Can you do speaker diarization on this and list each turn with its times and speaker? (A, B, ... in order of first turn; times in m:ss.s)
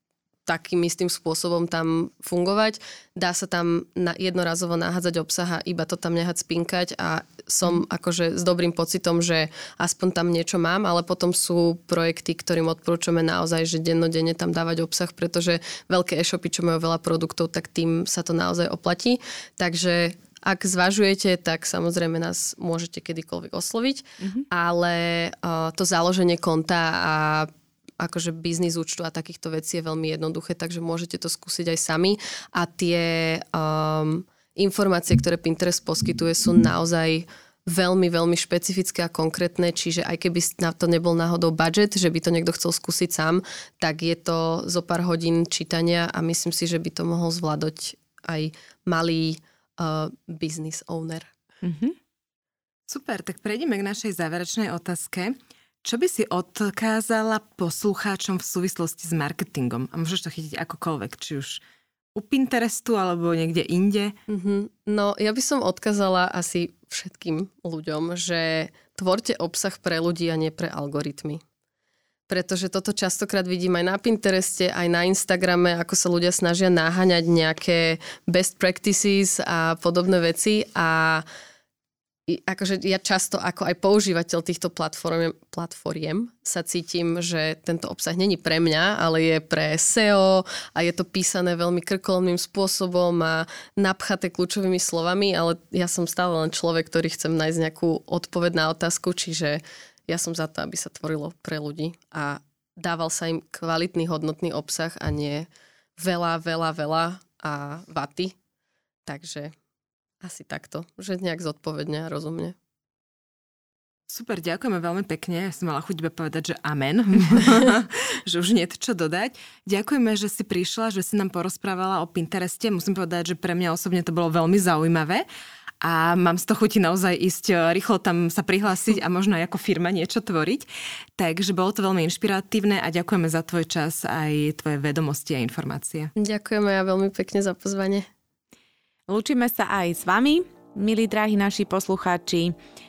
0:00.4-0:51.3 A
0:24.2-0:24.4 B
0:51.6-0:51.9 B
0:52.9-1:01.6 C
1:02.1-1:04.2 C
1:04.3-1:11.4 A
1:12.3-1:21.2 A
1:22.3-1:48.3 A
1:49.0-1:49.5 A
1:50.2-1:52.5 A
1:54.1-2:05.2 C
2:05.8-2:16.1 C
2:16.2-2:18.0 A
2:19.1-2:22.5 B